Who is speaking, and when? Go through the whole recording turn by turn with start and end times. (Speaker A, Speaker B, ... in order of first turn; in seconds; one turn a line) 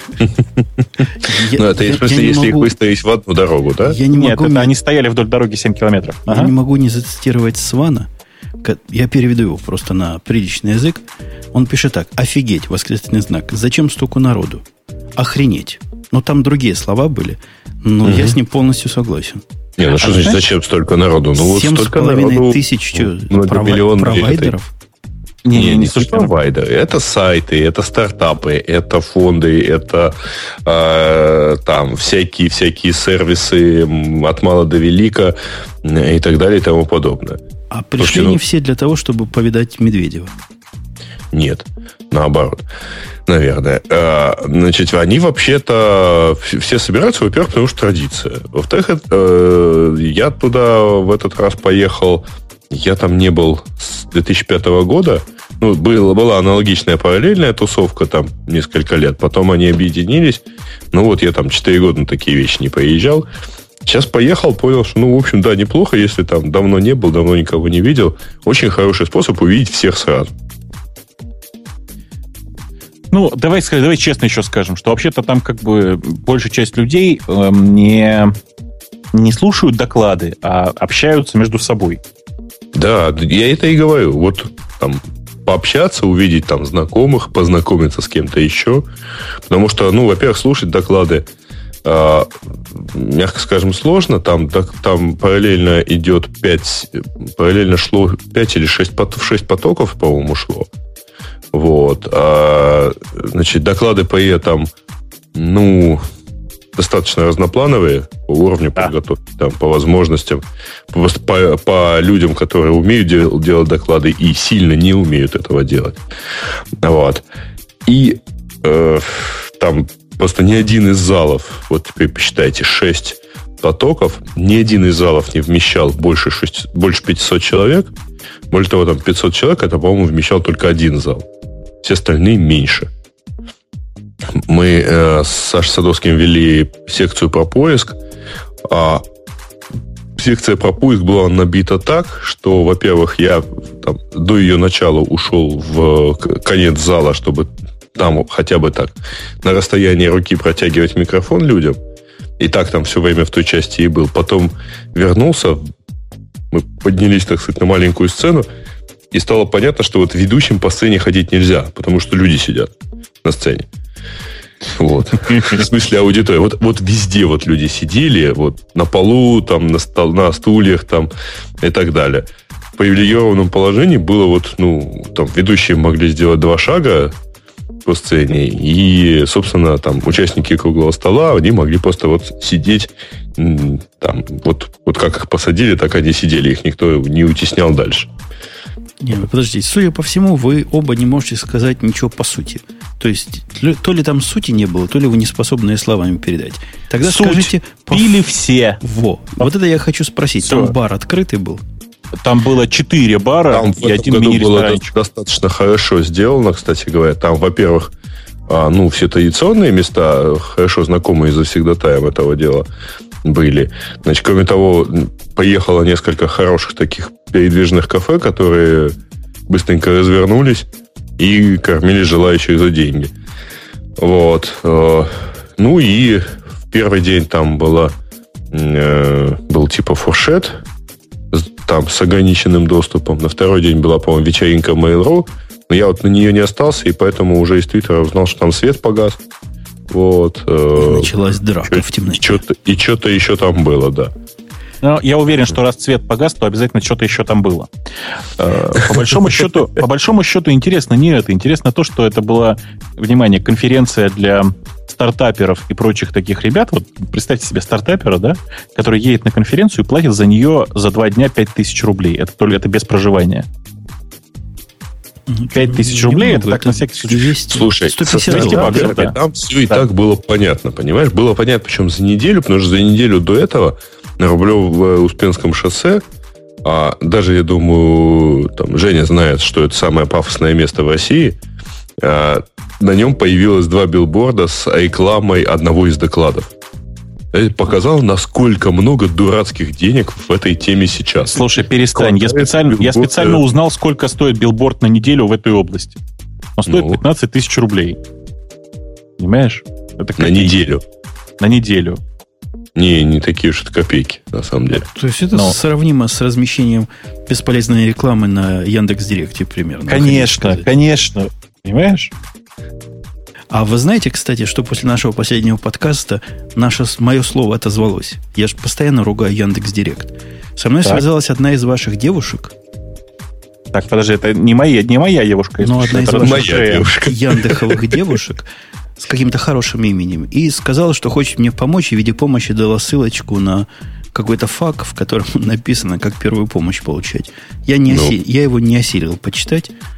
Speaker A: 0.2-1.0
Speaker B: 1.2-2.7
Speaker A: 1.6-4.0
Speaker B: 3.8-4.7
Speaker C: 4.1-6.5
Speaker B: 6.3-8.1
Speaker B: 8.6-14.6
Speaker B: 15.2-19.4
Speaker A: 18.0-18.4
Speaker A: 19.8-24.5
Speaker C: 20.0-20.4
Speaker B: 21.4-24.7
Speaker C: 25.4-26.3
Speaker A: 25.5-30.1
Speaker A: 30.6-37.4
Speaker B: 37.7-40.3
Speaker A: 38.0-38.4
Speaker A: 41.3-42.6
Speaker A: 43.2-63.2
Speaker A: 63.9-70.3
Speaker C: 73.1-78.3
Speaker C: 79.1-82.0
Speaker A: 82.7-88.8
Speaker A: 89.5-91.3
Speaker A: 91.8-100.7
Speaker A: 101.5-104.7
Speaker A: 105.3-106.0
Speaker A: 106.8-116.0
Speaker A: 116.8-117.2
Speaker A: 117.8-127.9
Speaker A: 128.5-131.3
Speaker A: 131.8-132.9
Speaker A: 134.3-138.0
Speaker A: 138.6-139.0
Speaker A: 140.2-151.8
Speaker A: 152.4-155.6
Speaker A: 156.5-158.5
Speaker A: 159.1-163.7
Speaker A: 164.7-177.1
Speaker A: 177.8-188.1
Speaker B: 189.0-198.3
Speaker C: 197.0-198.8
Speaker B: 198.8-201.6
Speaker C: 200.4-200.7
Speaker C: 202.2-204.9
Speaker A: 203.5-207.9
Speaker A: 208.5-212.7
Speaker A: 213.2-219.0
Speaker A: 219.5-223.1
Speaker A: 224.0-227.9
Speaker A: 228.5-230.6
Speaker A: 231.3-239.2
Speaker A: 239.9-241.1
Speaker B: 240.7-242.4
Speaker A: 241.7-244.1
Speaker C: 244.8-247.7
Speaker C: 248.4-263.4
Speaker B: 265.3-268.9
Speaker C: 265.5-269.1
Speaker A: 267.5-276.0
Speaker A: 276.6-281.4
Speaker A: 282.0-286.5
Speaker A: 287.3-293.4
Speaker C: 291.3-296.0
Speaker C: 296.6-298.0
Speaker A: 296.7-297.0
Speaker C: 299.2-300.6
Speaker A: 300.2-300.8
Speaker C: 301.4-302.0
Speaker A: 302.7-304.8
Speaker B: 304.8-310.7
Speaker C: 309.9-312.1
Speaker B: 313.5-322.5
Speaker C: 323.7-326.9
Speaker B: 325.6-328.5
Speaker A: 326.2-328.1
Speaker B: 329.0-339.7